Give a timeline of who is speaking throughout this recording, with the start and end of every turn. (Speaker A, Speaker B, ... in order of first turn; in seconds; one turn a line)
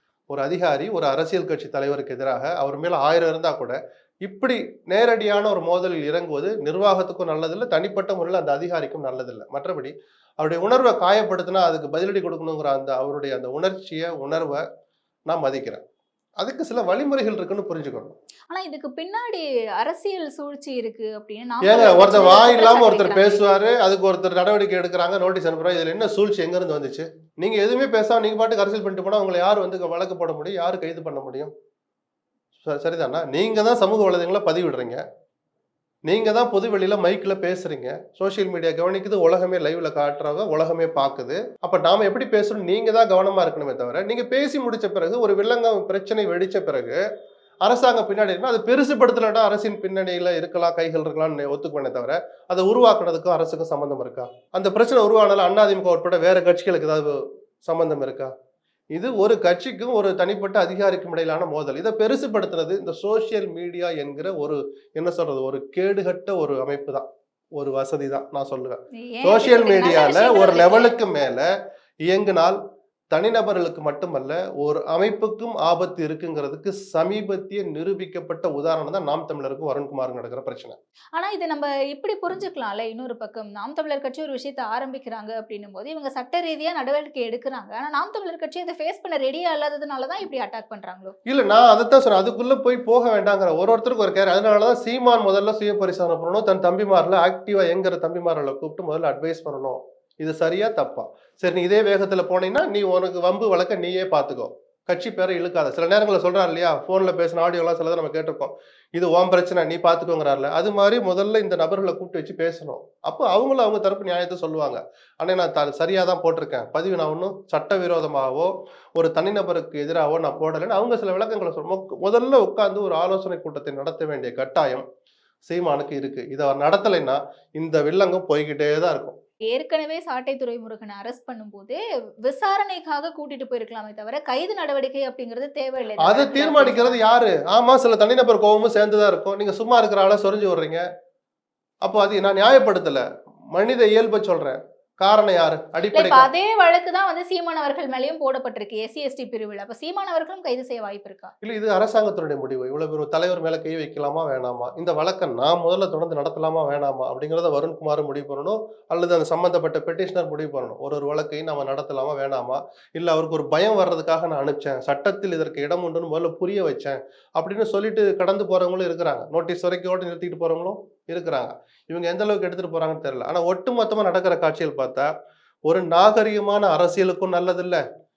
Speaker A: 0.3-14.6
Speaker A: 15.3-15.8
Speaker A: 16.4-18.1
Speaker B: 18.5-23.4
Speaker A: 21.6-31.5
Speaker A: 32.6-35.0
Speaker A: 36.1-47.0
Speaker A: 47.6-58.3
Speaker A: 58.9-71.5
Speaker B: 69.0-71.0
Speaker A: 72.1-72.6
Speaker A: 73.1-80.8
Speaker B: 81.2-91.2
Speaker A: 91.3-124.8
Speaker A: 125.5-129.2
Speaker B: 129.5-137.0
Speaker A: 136.0-140.8
Speaker A: 141.8-146.3
Speaker B: 145.9-151.3
Speaker A: 151.4-175.1
Speaker A: 175.7-177.8